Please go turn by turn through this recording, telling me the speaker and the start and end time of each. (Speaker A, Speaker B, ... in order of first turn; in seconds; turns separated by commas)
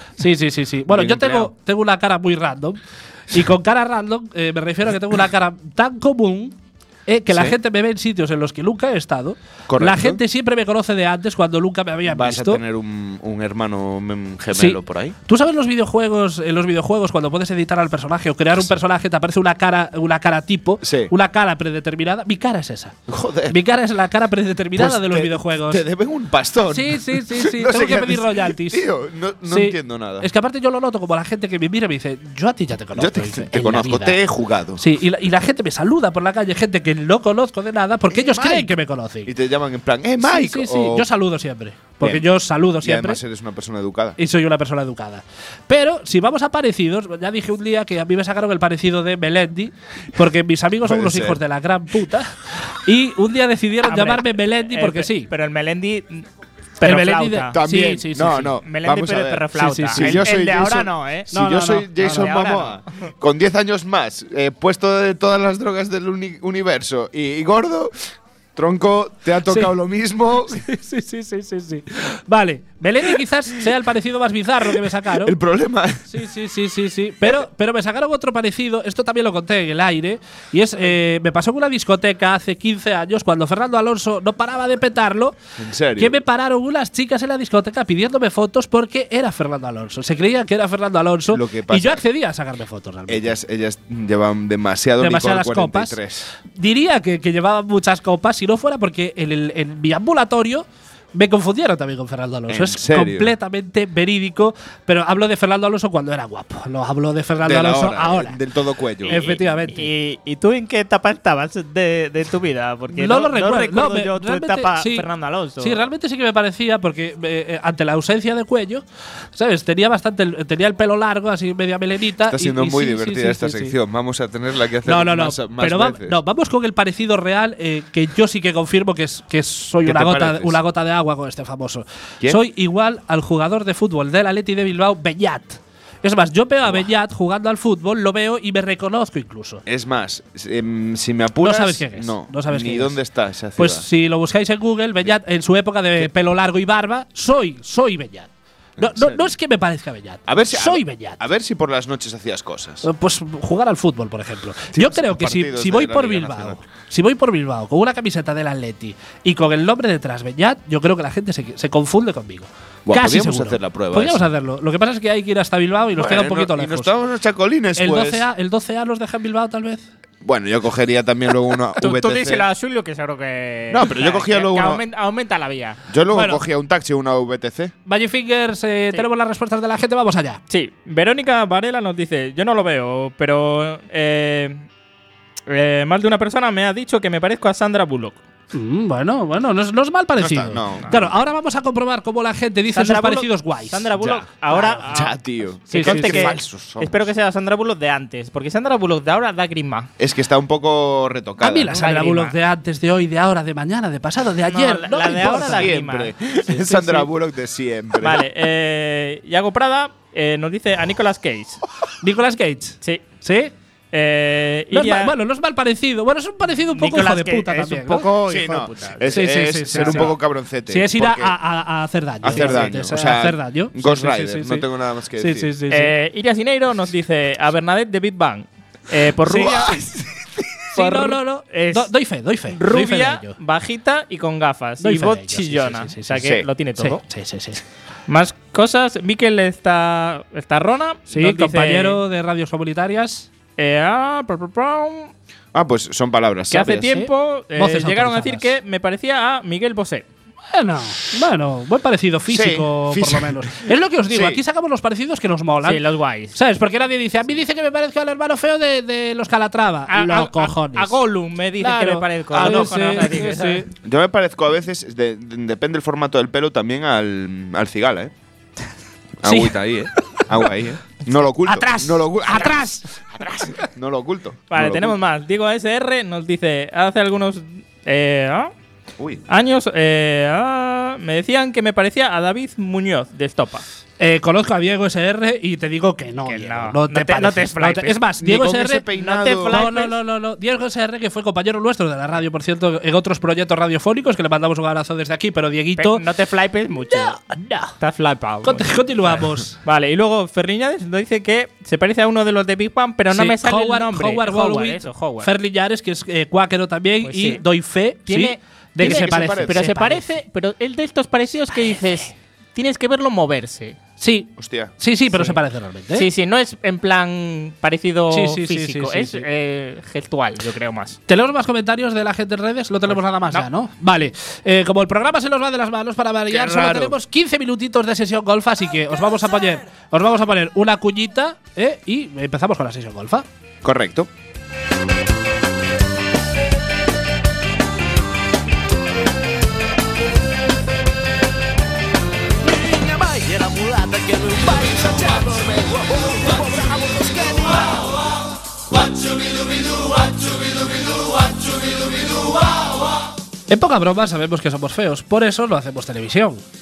Speaker A: 0.2-12.6, Speaker B: 0.9-1.5, Speaker B: 7.3-7.6, Speaker B: 9.7-10.2, Speaker B: 12.1-15.2, Speaker A: 14.5-23.0, Speaker B: 20.8-21.1, Speaker B: 23.1-23.6, Speaker A: 23.5-25.8, Speaker B: 24.8-30.3, Speaker A: 26.7-28.9, Speaker A: 29.5-34.2, Speaker B: 33.0-34.8, Speaker A: 34.8-39.3, Speaker B: 38.1-38.7, Speaker B: 39.2-41.1, Speaker A: 40.2-43.2, Speaker B: 42.8-44.2, Speaker A: 44.2-55.3, Speaker B: 50.8-51.4, Speaker C: 53.8-56.2, Speaker C: 56.8-57.6, Speaker A: 56.8-58.6, Speaker B: 57.5-70.6, Speaker C: 58.6-61.3, Speaker A: 59.6-60.3, Speaker A: 61.3-62.3, Speaker C: 62.0-62.9, Speaker A: 69.5-69.7, Speaker A: 70.5-75.4, Speaker B: 74.7-76.2, Speaker A: 76.1-85.4, Speaker B: 85.6-86.2, Speaker A: 86.0-93.3, Speaker B: 91.3-92.0, Speaker B: 93.1-96.3, Speaker A: 95.0-96.0, Speaker A: 96.5-108.4, Speaker B: 102.5-103.3, Speaker B: 107.4-109.4, Speaker A: 109.0-109.9, Speaker C: 109.1-115.8, Speaker A: 112.9-115.1, Speaker A: 115.6-118.8, Speaker A: 119.3-123.8, Speaker B: 122.2-126.2, Speaker A: 124.8-139.6, Speaker B: 129.8-130.6, Speaker B: 139.7-143.9, Speaker A: 141.4-143.0, Speaker A: 143.6-151.2, Speaker B: 148.8-149.3, Speaker B: 150.3-152.9, Speaker A: 152.8-166.9, Speaker B: 154.7-156.6, Speaker B: 162.9-164.3, Speaker B: 166.0-168.3, Speaker A: 167.8-169.9, Speaker B: 170.2-172.5, Speaker C: 171.8-175.8, Speaker B: 173.7-174.8, Speaker B: 175.9-177.7, Speaker A: 176.1-176.4, Speaker A: 177.9-180.4, Speaker C: 180.5-184.7, Speaker C: 185.5-188.2, Speaker A: 188.5-193.9, Speaker B: 190.2-191.1, Speaker C: 192.7-195.2, Speaker B: 194.0-194.2, Speaker A: 194.5-194.9, Speaker B: 194.9-197.1, Speaker C: 195.7-199.9, Speaker A: 195.7-196.4, Speaker B: 200.0-201.8, Speaker A: 201.4-205.7, Speaker C: 201.7-202.3, Speaker C: 204.5-206.9, Speaker B: 205.2-208.2, Speaker C: 208.0-211.6, Speaker A: 212.0-213.5, Speaker C: 213.9-215.1, Speaker A: 214.7-218.1, Speaker C: 216.7-220.1, Speaker B: 218.0-221.3, Speaker A: 219.1-220.2, Speaker A: 220.7-224.7, Speaker B: 222.2-225.5, Speaker C: 222.3-222.6, Speaker A: 225.2-225.9, Speaker C: 225.7-229.8, Speaker A: 229.2-229.7, Speaker B: 229.4-230.2, Speaker C: 230.7-231.9, Speaker A: 230.7-233.3, Speaker C: 232.5-237.0, Speaker A: 234.8-237.6, Speaker B: 236.2-236.5, Speaker C: 238.1-242.0, Speaker A: 241.1-243.3, Speaker C: 243.6-245.1, Speaker B: 245.5-246.9, Speaker C: 246.5-250.1, Speaker A: 246.9-248.5, Speaker A: 250.5-255.8, Speaker B: 252.3-254.4, Speaker C: 255.6-256.4, Speaker A: 256.3-261.0, Speaker C: 259.9-263.6, Speaker A: 261.6-263.7, Speaker B: 262.3-263.2, Speaker B: 263.8-268.1, Speaker B: 269.2-275.0, Speaker A: 269.2-269.6, Speaker A: 271.4-272.9, Speaker C: 274.5-278.5, Speaker C: 279.3-283.6, Speaker A: 284.0-288.9, Speaker C: 286.3-288.0, Speaker B: 288.2-289.7, Speaker C: 288.9-290.0, Speaker A: 289.5-296.0, Speaker C: 295.8-297.2, Speaker A: 296.9-297.7, Speaker C: 297.8-305.3, Speaker A: 298.4-299.6, Speaker A: 303.1-310.0, Speaker C: 307.0-307.4, Speaker C: 308.1-313.8, Speaker B: 308.8-309.7, Speaker A: 314.0-316.1, Speaker B: 314.4-314.7, Speaker C: 315.1-315.4, Speaker C: 315.9-321.0, Speaker A: 318.1-319.3, Speaker A: 321.1-333.3, Speaker C: 326.4-326.9, Speaker B: 333.6-334.1, Speaker D: 342.5-347.6, Speaker A: 353.5-356.4